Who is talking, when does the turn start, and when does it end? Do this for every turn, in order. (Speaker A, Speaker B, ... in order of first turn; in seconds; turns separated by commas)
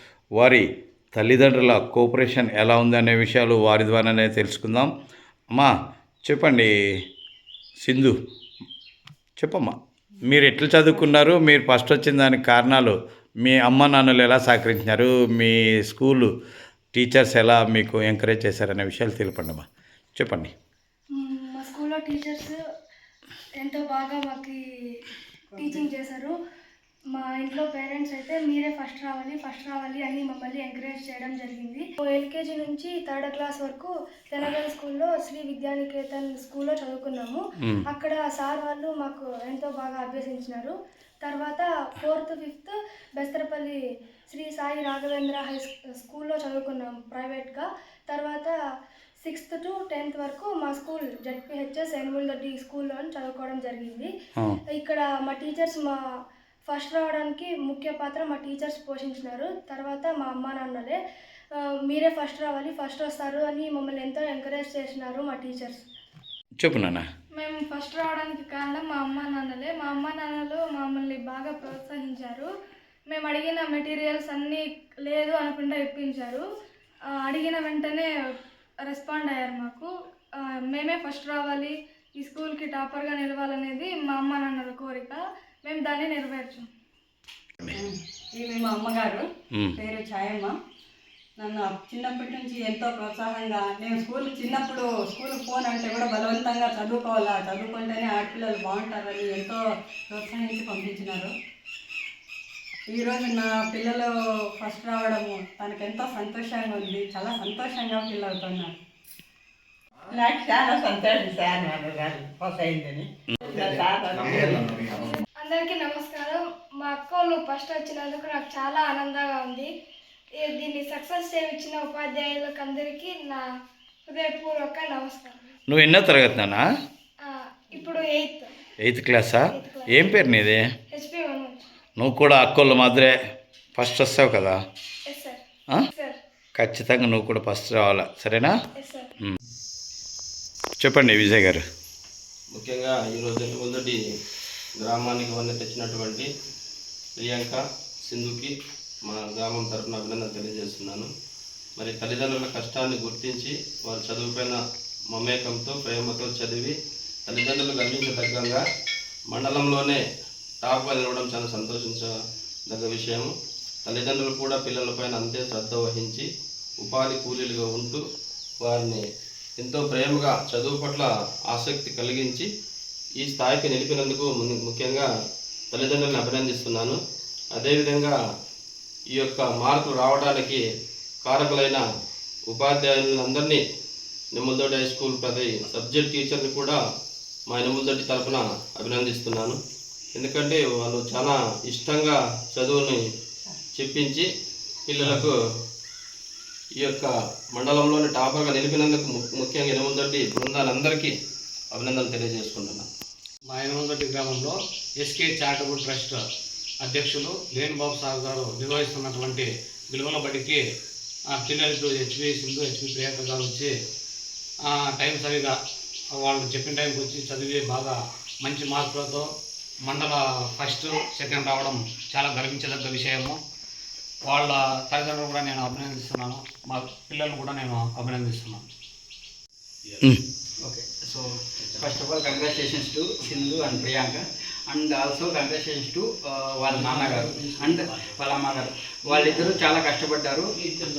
Speaker A: 0.4-4.9, Speaker A: 6.3-6.7, Speaker A: 7.8-8.2, Speaker A: 9.4-16.3, Speaker A: 16.9-19.7, Speaker A: 20.2-20.5, Speaker B: 21.2-22.6, Speaker B: 23.6-24.6, Speaker B: 25.6-26.3, Speaker B: 27.1-43.8, Speaker B: 44.3-48.5, Speaker B: 49.2-54.1, Speaker B: 54.7-56.0, Speaker B: 56.7-61.0, Speaker B: 61.6-65.8, Speaker A: 66.6-67.0, Speaker B: 67.3-72.5, Speaker B: 73.1-76.5, Speaker B: 77.1-78.1, Speaker B: 78.8-86.7, Speaker C: 87.8-89.3, Speaker C: 89.8-90.5, Speaker C: 91.4-101.3, Speaker C: 102.9-108.8, Speaker D: 110.1-114.8, Speaker B: 114.9-119.7, Speaker B: 120.4-123.5, Speaker B: 124.1-125.5, Speaker A: 125.7-126.6, Speaker B: 127.7-128.5, Speaker A: 128.8-130.6, Speaker B: 129.5-130.1, Speaker B: 130.9-131.7, Speaker A: 132.0-133.1, Speaker A: 133.8-134.6, Speaker B: 135.1-136.2, Speaker A: 136.6-138.5, Speaker B: 138.8-139.1, Speaker A: 140.8-141.6, Speaker E: 142.5-144.0, Speaker E: 144.8-146.3, Speaker E: 147.2-148.5, Speaker E: 149.1-151.1, Speaker E: 151.8-154.6, Speaker E: 155.1-156.7, Speaker E: 157.3-158.6, Speaker E: 159.3-160.0, Speaker E: 160.6-162.1, Speaker E: 162.7-163.3, Speaker E: 163.9-166.2, Speaker E: 166.8-168.0, Speaker E: 168.6-169.0, Speaker E: 169.6-172.5, Speaker E: 173.2-175.1, Speaker E: 175.7-177.0, Speaker E: 177.5-178.1, Speaker E: 179.2-180.6, Speaker E: 181.2-181.8, Speaker E: 182.5-183.6, Speaker E: 184.3-186.8, Speaker E: 187.5-189.6, Speaker E: 190.2-193.0, Speaker E: 193.8-194.2, Speaker E: 194.9-195.4, Speaker E: 196.8-201.1, Speaker E: 201.7-202.9, Speaker F: 203.5-206.2, Speaker F: 206.8-210.6, Speaker F: 211.3-213.7, Speaker F: 214.7-215.6, Speaker F: 216.1-219.3, Speaker F: 219.9-223.4, Speaker F: 224.3-228.6, Speaker G: 230.6-240.5, Speaker F: 236.8-237.5, Speaker E: 239.1-239.5